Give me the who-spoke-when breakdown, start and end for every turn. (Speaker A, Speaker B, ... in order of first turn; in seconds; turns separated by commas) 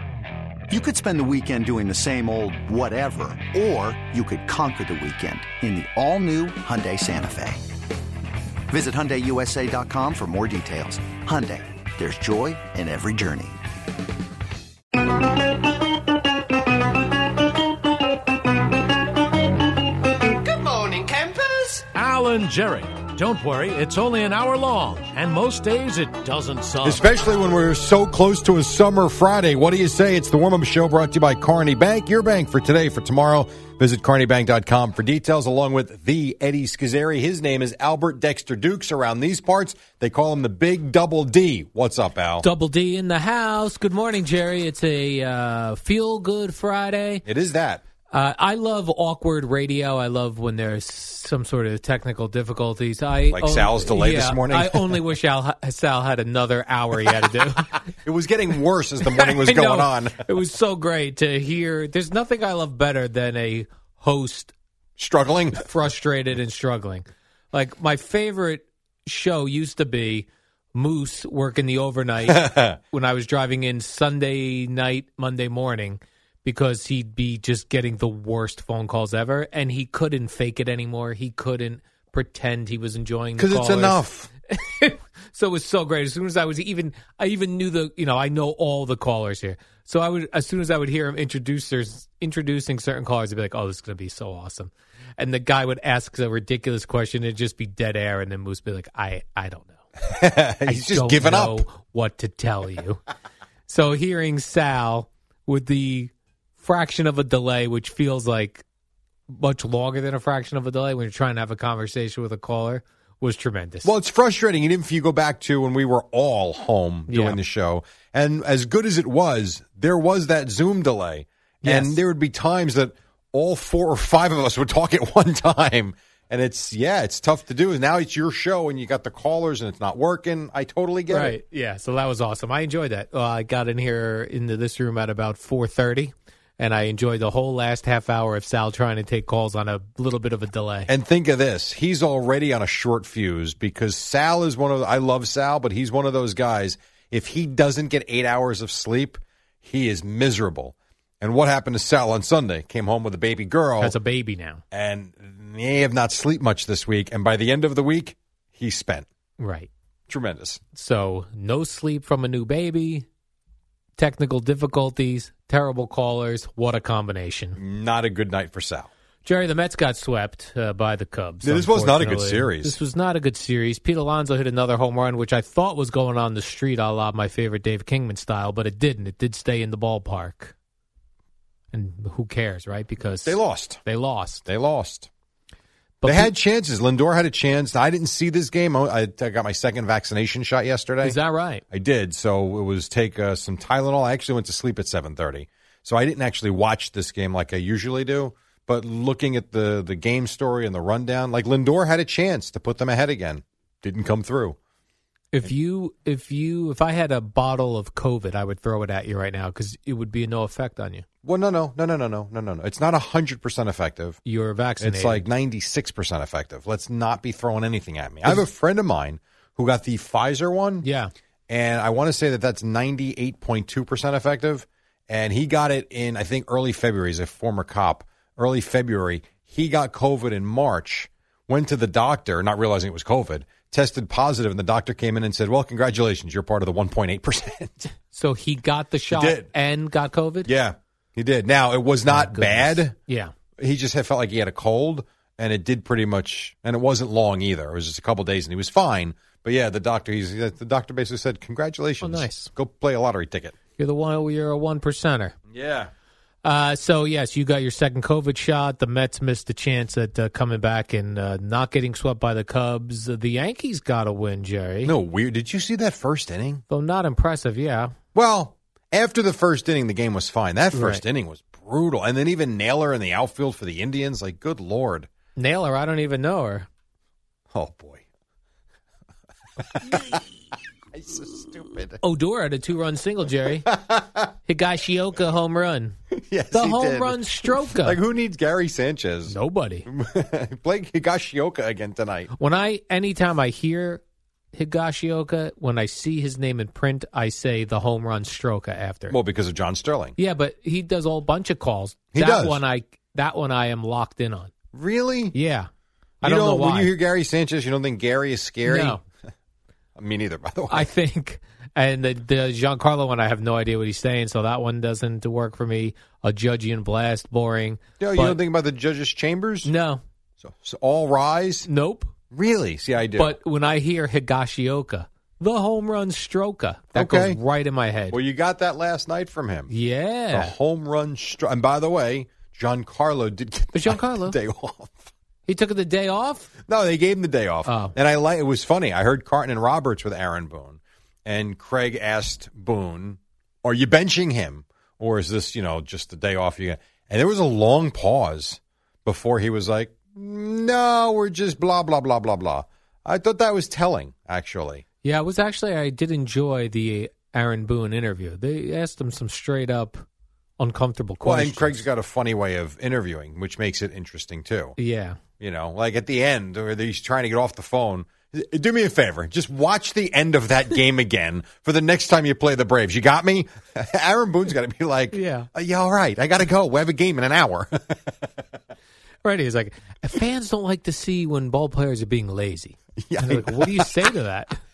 Speaker A: 0.7-7.7, Speaker A: 8.7-13.6, Speaker B: 21.9-27.0, Speaker C: 26.8-42.5, Speaker D: 42.4-47.2, Speaker C: 47.2-47.8, Speaker D: 48.1-57.8, Speaker C: 53.3-55.0, Speaker C: 58.0-60.2, Speaker D: 59.1-64.5, Speaker C: 65.0-65.6, Speaker D: 65.6-99.8, Speaker C: 72.3-72.8, Speaker C: 83.4-84.3, Speaker C: 100.0-101.6, Speaker D: 100.6-103.0, Speaker D: 103.7-108.6, Speaker D: 109.3-113.9, Speaker C: 113.8-131.3, Speaker D: 117.1-117.4, Speaker D: 121.6-122.0, Speaker D: 131.1-140.9, Speaker C: 140.9-153.9, Speaker D: 153.8-154.6, Speaker C: 154.7-159.1, Speaker D: 159.4-159.7, Speaker C: 160.1-160.6, Speaker D: 160.7-163.1, Speaker D: 164.0-167.6, Speaker C: 167.6-168.9, Speaker D: 169.2-180.5, Speaker C: 171.4-172.8, Speaker D: 181.7-184.4, Speaker C: 183.2-183.8, Speaker C: 184.4-185.1, Speaker D: 186.0-186.3, Speaker C: 186.0-191.2, Speaker D: 191.0-191.6, Speaker C: 191.7-204.6, Speaker D: 205.3-211.0, Speaker C: 211.2-214.2, Speaker D: 214.2-215.2, Speaker C: 214.8-220.9, Speaker D: 220.8-221.1, Speaker C: 221.5-237.9, Speaker D: 238.1-240.5, Speaker C: 239.1-239.5, Speaker C: 240.4-242.9, Speaker D: 242.1-243.3, Speaker C: 243.6-253.6, Speaker D: 252.0-252.5, Speaker D: 253.8-255.3, Speaker C: 255.5-255.9, Speaker D: 256.4-264.9, Speaker C: 264.8-266.6, Speaker D: 266.7-267.9, Speaker C: 268.1-275.1, Speaker D: 270.7-271.0, Speaker D: 275.4-276.7, Speaker C: 277.5-278.0, Speaker C: 279.6-280.2, Speaker C: 280.9-282.0, Speaker D: 282.0-283.7, Speaker C: 283.7-284.2, Speaker D: 284.5-286.0, Speaker C: 286.2-292.3, Speaker D: 286.5-288.0, Speaker D: 289.3-289.9, Speaker D: 292.4-294.0, Speaker D: 294.5-299.1, Speaker C: 299.1-300.1, Speaker D: 300.2-304.5, Speaker C: 302.1-302.6, Speaker C: 304.7-305.3, Speaker D: 305.3-305.7, Speaker D: 306.2-306.9, Speaker C: 306.2-309.0, Speaker D: 308.6-309.0, Speaker C: 309.9-310.9, Speaker D: 310.7-318.4, Speaker C: 318.0-319.7, Speaker D: 319.6-320.0, Speaker C: 320.4-321.7, Speaker D: 321.7-322.1, Speaker C: 322.3-323.4, Speaker D: 323.2-328.2, Speaker C: 326.9-327.4, Speaker C: 328.1-329.7, Speaker D: 329.7-330.5, Speaker C: 330.3-335.1, Speaker D: 333.7-334.4, Speaker D: 335.5-336.5, Speaker C: 336.7-354.8, Speaker D: 337.7-337.9, Speaker D: 355.0-360.0, Speaker D: 360.6-361.8, Speaker C: 361.2-364.8, Speaker D: 364.8-365.2, Speaker C: 365.4-377.9, Speaker D: 375.1-375.5, Speaker D: 379.2-384.6, Speaker C: 383.0-384.1